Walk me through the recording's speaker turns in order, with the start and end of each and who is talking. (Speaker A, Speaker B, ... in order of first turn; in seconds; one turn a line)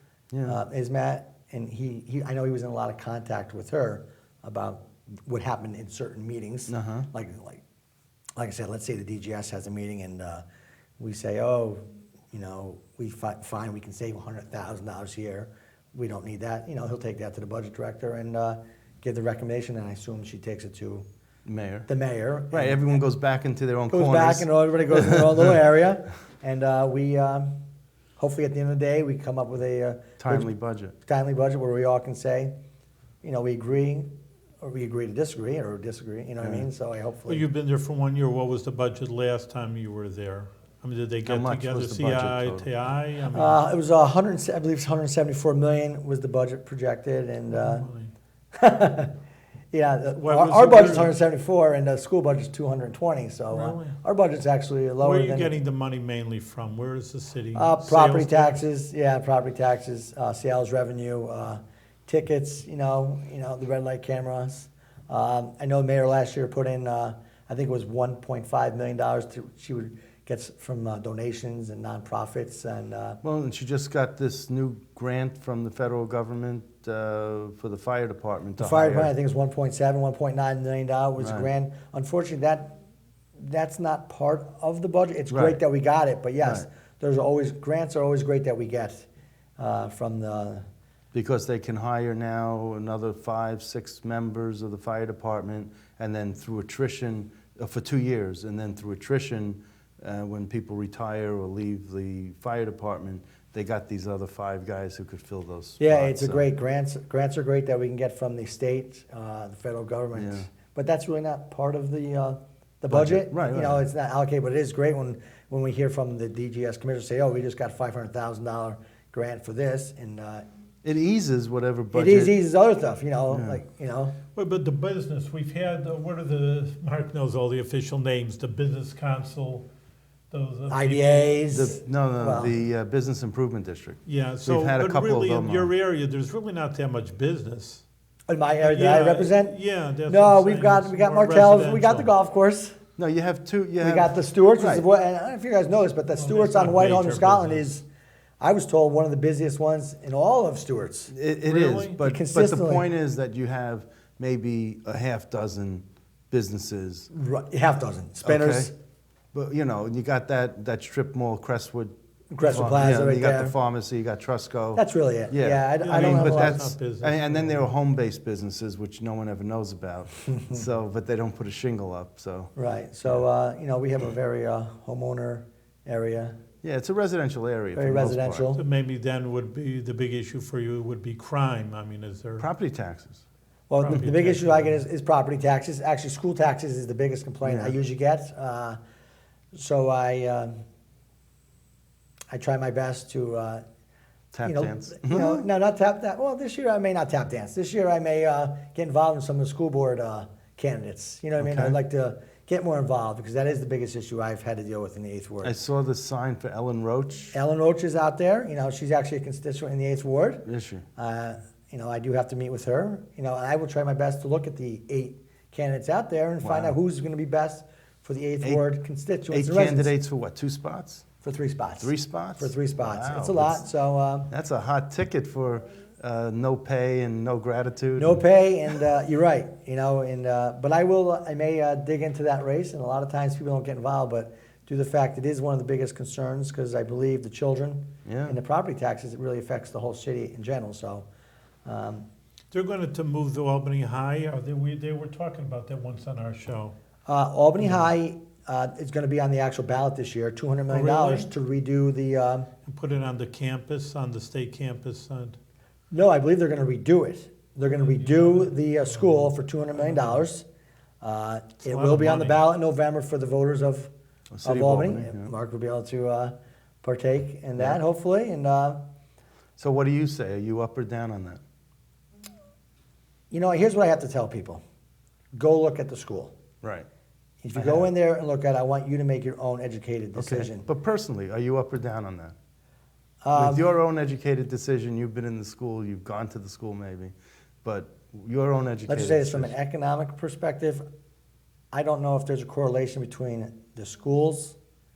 Speaker A: 0.3-0.6
Speaker B: 0.5-7.6
Speaker A: 6.7-7.1
Speaker B: 8.4-10.4
Speaker B: 11.0-11.8
Speaker B: 12.3-21.1
Speaker A: 21.4-21.9
Speaker B: 21.9-22.9
Speaker A: 22.5-25.3
Speaker B: 23.9-27.5
Speaker B: 28.2-30.5
Speaker A: 30.2-30.9
Speaker B: 31.0-32.5
Speaker B: 33.2-34.1
Speaker B: 34.6-37.5
Speaker A: 36.4-36.7
Speaker C: 37.3-43.6
Speaker A: 41.2-42.7
Speaker B: 43.3-47.9
Speaker C: 47.5-48.1
Speaker B: 48.5-49.1
Speaker B: 49.7-55.5
Speaker C: 50.2-51.1
Speaker C: 53.5-54.0
Speaker C: 55.0-58.6
Speaker B: 57.5-73.2
Speaker A: 73.2-79.1
Speaker B: 78.6-82.7
Speaker A: 81.2-81.5
Speaker B: 83.4-89.1
Speaker A: 85.3-85.6
Speaker A: 86.4-86.7
Speaker B: 89.6-90.7
Speaker A: 91.1-106.5
Speaker B: 105.8-120.5
Speaker A: 110.2-110.5
Speaker A: 112.9-113.9
Speaker A: 120.8-122.3
Speaker B: 121.9-124.2
Speaker A: 123.3-123.6
Speaker C: 124.3-129.7
Speaker C: 130.3-131.6
Speaker B: 130.7-132.5
Speaker A: 131.5-135.7
Speaker C: 134.1-137.8
Speaker B: 138.3-139.6
Speaker C: 138.6-142.1
Speaker B: 140.1-142.8
Speaker A: 143.0-144.9
Speaker B: 143.8-147.8
Speaker C: 146.1-147.7
Speaker B: 148.4-151.1
Speaker A: 151.1-157.1
Speaker C: 151.5-152.0
Speaker B: 152.0-152.9
Speaker B: 157.1-158.7
Speaker A: 158.2-158.7
Speaker A: 159.3-172.5
Speaker B: 162.3-163.6
Speaker B: 164.8-166.7
Speaker C: 165.8-167.7
Speaker B: 172.6-176.4
Speaker A: 176.6-178.5
Speaker B: 177.8-178.6
Speaker C: 178.6-182.5
Speaker A: 182.4-183.2
Speaker B: 183.7-188.8
Speaker C: 183.8-184.8
Speaker A: 187.4-187.8
Speaker B: 189.5-190.6
Speaker B: 192.3-193.6
Speaker A: 194.3-195.4
Speaker B: 194.4-205.5
Speaker A: 201.4-201.8
Speaker A: 205.4-207.3
Speaker B: 207.3-219.9
Speaker A: 210.5-210.8
Speaker A: 216.4-216.8
Speaker A: 219.3-221.1
Speaker B: 221.2-224.3
Speaker A: 221.8-223.7
Speaker A: 224.3-228.2
Speaker B: 228.0-241.1
Speaker A: 238.1-238.4
Speaker B: 241.7-242.1
Speaker C: 242.5-246.8
Speaker B: 247.1-252.5
Speaker C: 250.7-251.3
Speaker C: 252.7-255.4
Speaker B: 255.9-260.5
Speaker C: 257.7-260.2
Speaker B: 261.0-263.9
Speaker C: 261.6-262.5
Speaker A: 264.3-265.3
Speaker B: 264.4-268.8
Speaker A: 269.6-271.4
Speaker B: 273.3-274.6
Speaker B: 275.4-276.4
Speaker A: 276.6-276.9
Speaker B: 277.4-280.7
Speaker A: 277.5-277.9
Speaker A: 280.2-282.4
Speaker B: 283.2-283.6
Speaker A: 283.3-289.5
Speaker B: 288.9-290.8
Speaker B: 291.7-294.6